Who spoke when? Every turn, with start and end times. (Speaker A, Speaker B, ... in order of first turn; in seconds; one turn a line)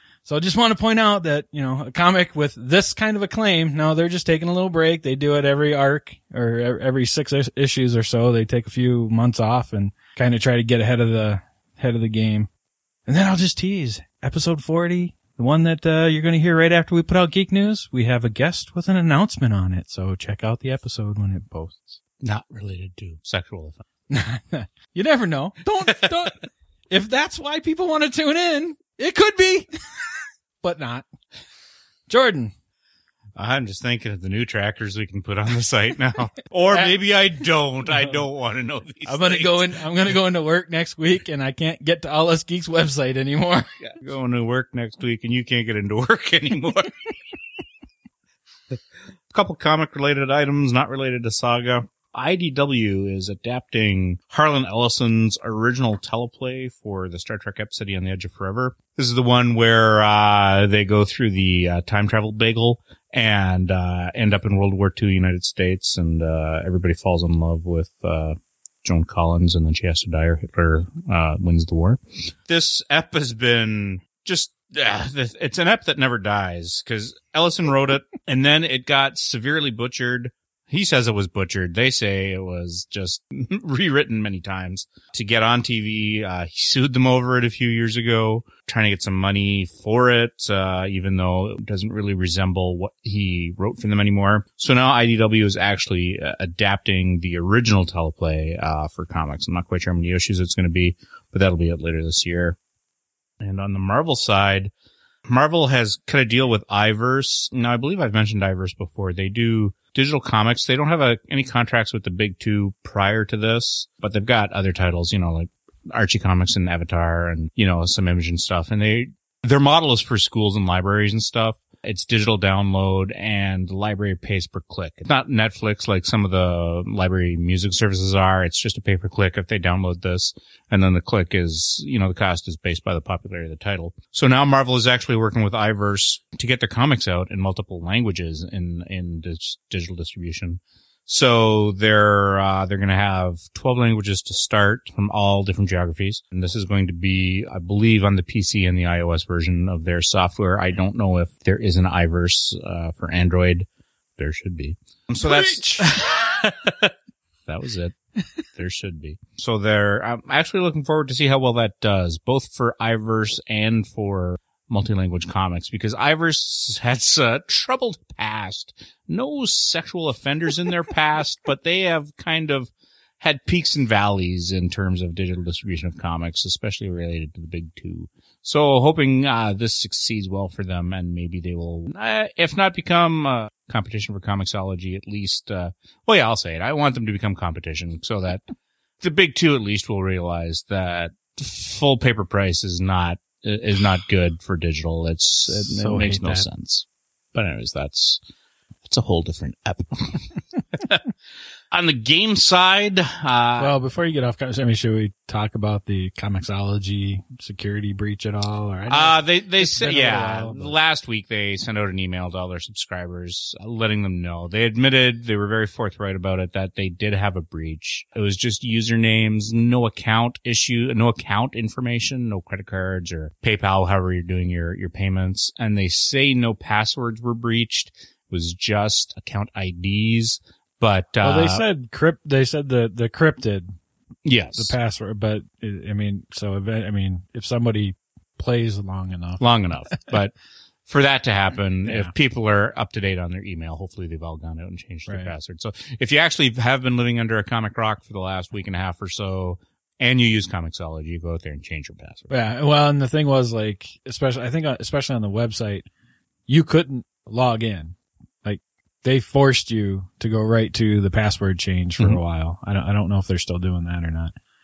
Speaker A: 0.2-12.5
Speaker A: 13.1-22.0
Speaker B: 22.2-23.8
Speaker A: 24.1-30.0
Speaker A: 30.6-31.1
Speaker A: 32.1-32.5
Speaker B: 33.4-39.7
Speaker A: 39.1-43.7
Speaker B: 43.8-47.0
Speaker B: 49.3-102.6
Speaker B: 103.4-104.7
Speaker B: 105.3-156.9
Speaker A: 155.2-156.2
Speaker B: 157.5-158.0
Speaker B: 158.5-188.4
Speaker B: 189.0-198.2
Speaker A: 195.5-196.4
Speaker B: 198.8-201.0
Speaker B: 201.7-203.7
Speaker A: 203.6-210.7
Speaker B: 208.9-231.6
Speaker A: 231.2-233.7
Speaker B: 234.2-234.8
Speaker A: 234.6-239.4
Speaker B: 239.4-240.3
Speaker B: 240.9-252.3
Speaker A: 241.9-242.1
Speaker A: 252.3-255.9
Speaker A: 256.5-264.3